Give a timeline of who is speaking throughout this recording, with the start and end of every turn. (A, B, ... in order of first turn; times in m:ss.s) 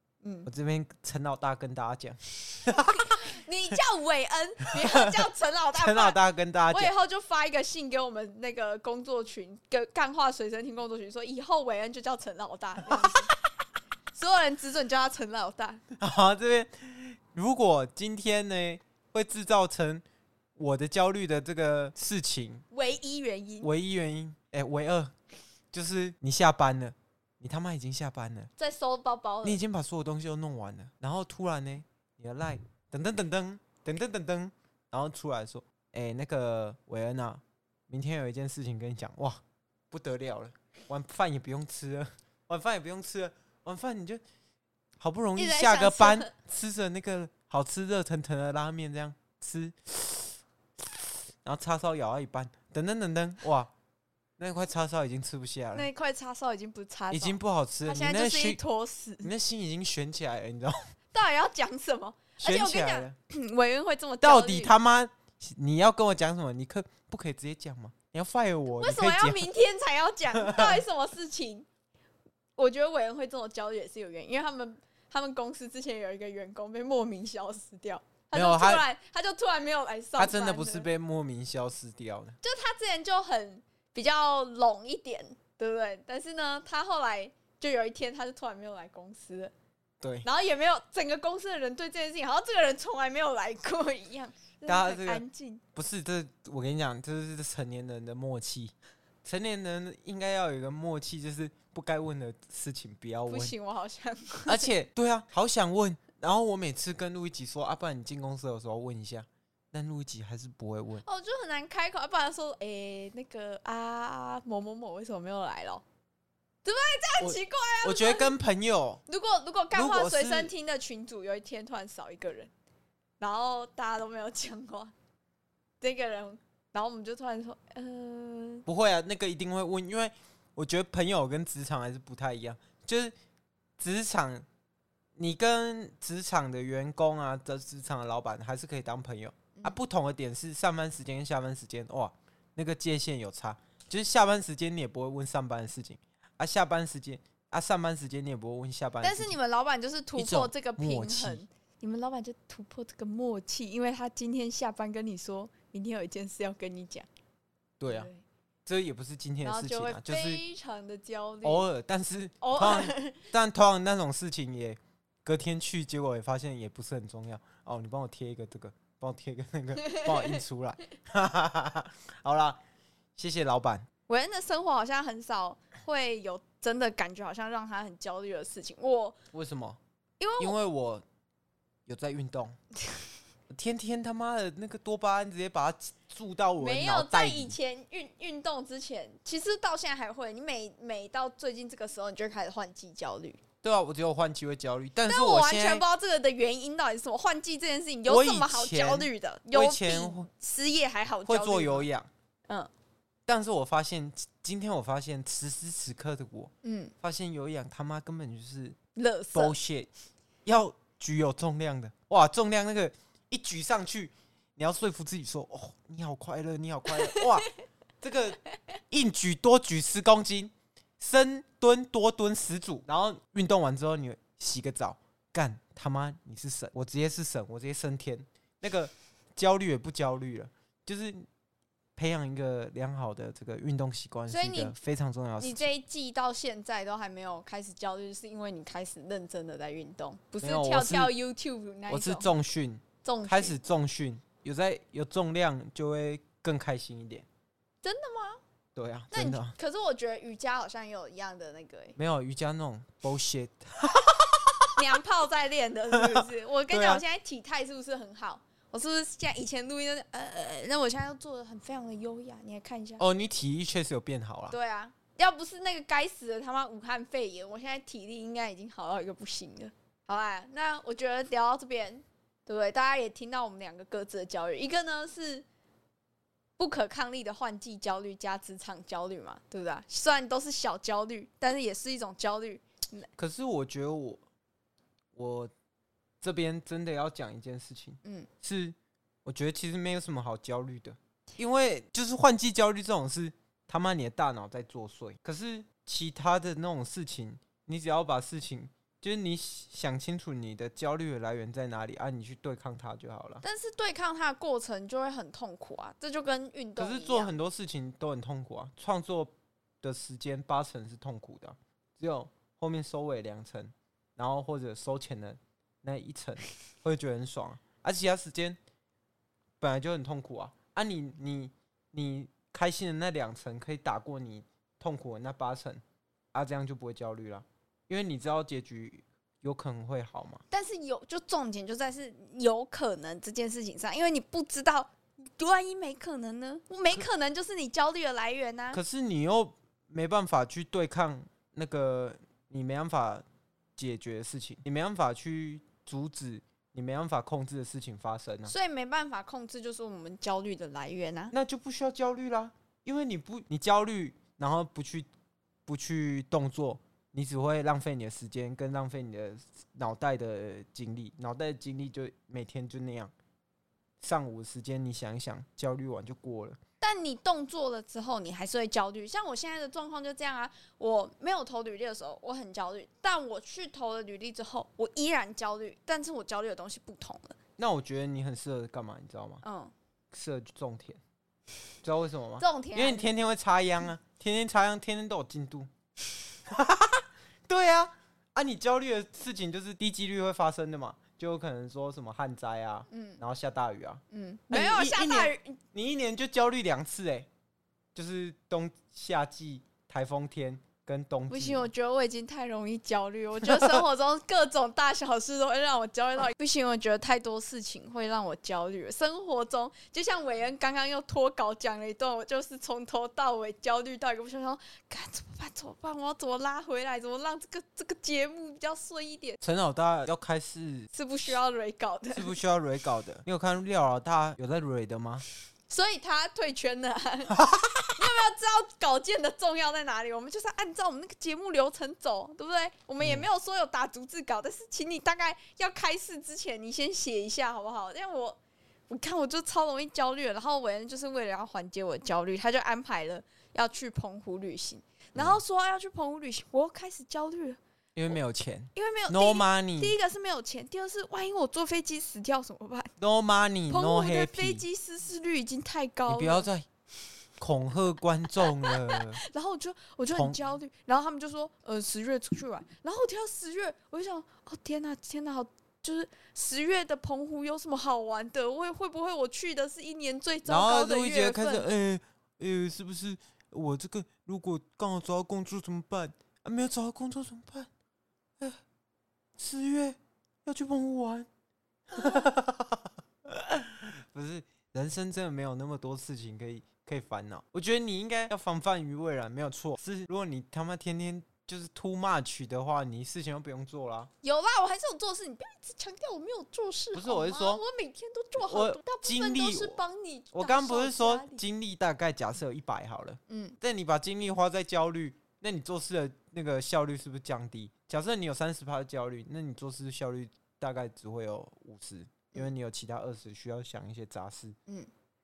0:00.2-0:00.5 A
0:00.4-0:03.3 B
0:02.7-0:06.2 A
0:04.7-0:05.2 B
0:05.8-0:06.9 B
0:06.7-0:13.3 A
0:12.9-0:13.2 B
0:14.1-0:15.8 A
0:16.0-0:20.0 B
0:20.6-0:22.6 B
0:22.7-0:23.7 A
0:23.6-0:25.1 B
0:25.7-0:28.5 B
0:28.6-0:29.6 A
0:29.4-0:44.2 B
0:45.0-0:53.7 B
0:45.4-0:46.3 A
0:54.4-0:55.9 B
0:55.7-0:59.3 A
0:57.1-0:58.6 B
0:59.2-1:00.8 B
1:01.1-1:04.7 A
1:02.4-1:03.1 B
1:04.2-1:09.5 B
1:08.8-1:11.7 A
1:10.4-1:10.8 B
1:12.6-1:20.9 A
1:18.3-1:18.8 B
1:20.2-1:22.4 B
1:22.4-1:29.5 A
1:30.0-1:30.3 B
1:30.2-1:35.6 A
1:34.7-1:35.2 B
1:35.7-1:38.7 B
1:39.2-1:43.5 B
1:43.3-1:44.7 A
1:44.5-1:51.0 B
1:51.0-1:55.8 A
1:56.6-1:58.3 A
1:57.2-1:59.0 B
1:59.1-2:02.5 A
1:59.7-2:00.5 B
2:03.2-2:04.9 A
2:05.8-2:08.6 A
2:08.6-2:13.1 B
2:13.8-2:14.4 B
2:15.2-2:29.4 B
2:29.0-2:37.1 A
2:30.2-2:31.4 B
2:37.8-2:38.1 B
2:37.9-2:38.2 A
2:38.6-2:40.4 B
2:39.4-2:41.7 A
2:41.4-2:52.6 B
2:42.4-2:43.2 A
2:49.8-2:50.4 A
2:53.2-2:53.9 B
2:54.1-2:59.2 A
2:59.3-2:59.8 B
3:00.2-3:00.6 A
3:00.4-3:01.0 B
3:01.9-3:02.6 B
3:03.5-3:07.6 B
3:06.6-3:13.4 A
3:13.6-3:15.8 B
3:15.0-3:21.9 A
3:18.1-3:20.3 B
3:21.2-3:22.1 B
3:23.3-3:28.8 B
3:26.6-3:26.9 A
3:28.9-3:29.5 A
3:29.3-3:29.9 B
3:30.4-3:37.5 B
3:37.0-3:37.3 A
3:38.0-3:51.2 B
3:52.0-3:55.6 B
3:54.3-3:54.8 A
3:55.4-4:02.3 A
4:00.4-4:01.1 B
4:01.9-4:07.2 B
4:03.0-4:03.6 A
4:07.8-4:08.4 A
4:08.7-4:09.5 B
4:09.1-4:12.0 A
4:12.0-4:14.8 B
4:14.8-4:23.0 A
4:15.9-4:17.0 B
4:23.0-4:24.6 B
4:24.5-4:35.4 A
4:36.6-4:43.1 A
4:43.2-4:44.2 B
4:45.2-4:45.5 B
4:46.2-5:03.4 B
4:48.0-4:48.3 A
5:03.4-5:07.3 A
5:06.8-5:18.6 B
5:19.6-5:25.8 B
5:26.3-5:30.4 B
5:30.5-5:38.8 A
5:38.7-5:43.2 B
5:43.8-5:48.5 B
5:48.4-5:51.3 A
5:51.3-5:55.1 B
5:55.6-6:03.1 B
6:04.0-6:06.6 B
6:06.8-6:17.4 A
6:17.6-6:19.4 B
6:19.4-6:19.7 A
6:20.1-6:21.0 B
6:21.8-6:25.7 B
6:22.4-6:23.1 A
6:26.5-6:37.3 B
6:32.9-6:33.2 A
6:34.1-6:35.6 A
6:37.9-6:41.7 B
6:41.3-6:59.4 A
6:59.4-7:00.9 B
7:00.9-7:02.3 A
7:02.1-7:05.2 B
7:05.7-7:07.4 A
7:07.3-7:08.0 B
7:07.9-7:18.4 A
7:13.0-7:13.2 B
7:18.9-7:27.6 A
7:27.9-7:29.9 B
7:28.7-7:32.9 A
7:33.0-7:34.6 B
7:33.7-7:36.5 A
7:36.1-7:36.7 B
7:37.4-7:39.2 B
7:38.4-7:51.6 A
7:40.1-7:40.4 B
7:50.4-7:57.7 B
7:59.4-8:01.3 B
8:01.9-8:14.1 B
8:02.0-8:02.2 A
8:14.2-8:21.4 A
8:16.9-8:17.6 B
8:18.4-8:19.8 B
8:20.3-8:34.6 B
8:23.3-8:23.6 A